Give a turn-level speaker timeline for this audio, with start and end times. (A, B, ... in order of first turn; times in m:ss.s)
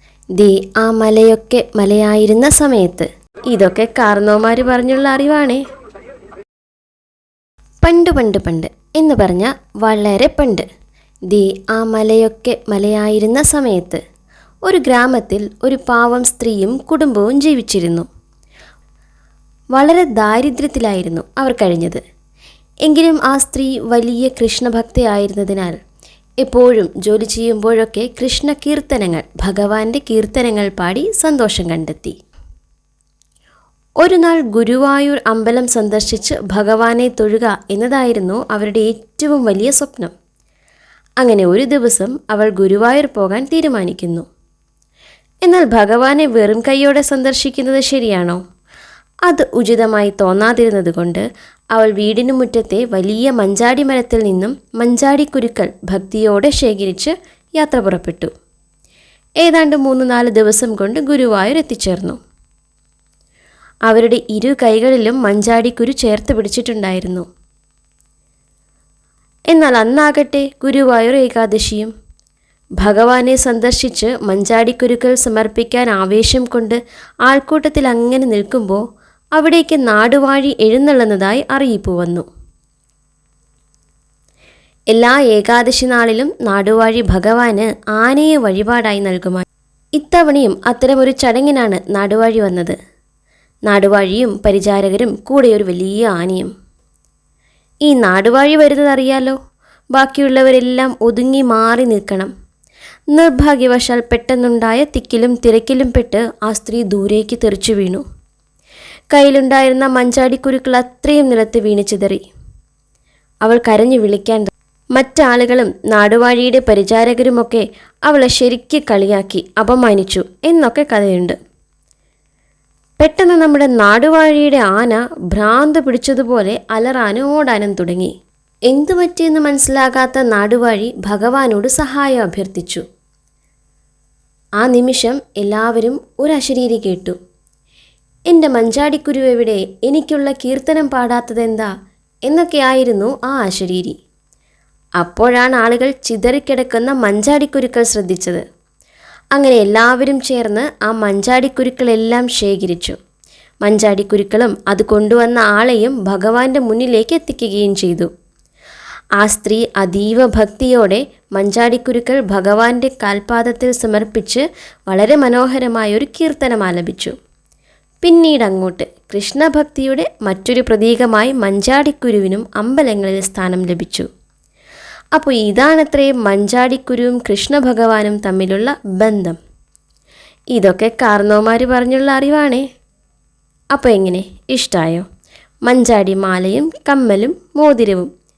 0:00.3-0:05.6 A
0:07.8-0:10.6 A
0:11.3-0:14.0 A
0:14.6-0:18.1 A
0:19.7-0:22.0 A
0:22.8-0:25.8 A
0:26.4-0:32.2 A
0:34.0-0:40.1 A
0:41.2-0:44.2 A
0:45.4-0:48.4 A
0:49.3-0:58.3 A
0:59.4-1:02.2 A
1:03.8-1:07.2 A
1:09.5-1:11.9 A
1:12.8-1:18.8 A
1:19.4-1:22.2 A
1:24.9-1:29.4 A
1:30.0-1:32.7 A
1:33.7-1:36.5 A
1:37.8-1:39.4 A
1:39.9-1:42.3 A
1:43.1-1:48.0 A
1:49.1-1:52.2 A
1:53.4-2:01.4 A
2:03.0-2:08.1 A
2:08.7-2:12.8 A
2:14.6-2:17.2 A
2:18.3-2:21.7 A
2:22.2-2:24.0 A
2:25.0-2:28.4 A
2:29.3-2:33.0 A
2:33.6-2:38.1 A
2:39.2-2:47.1 A
2:48.0-2:54.1 A
2:55.1-2:59.4 A
3:00.5-3:02.6 A
3:03.7-3:05.0 A
3:05.6-3:08.1 A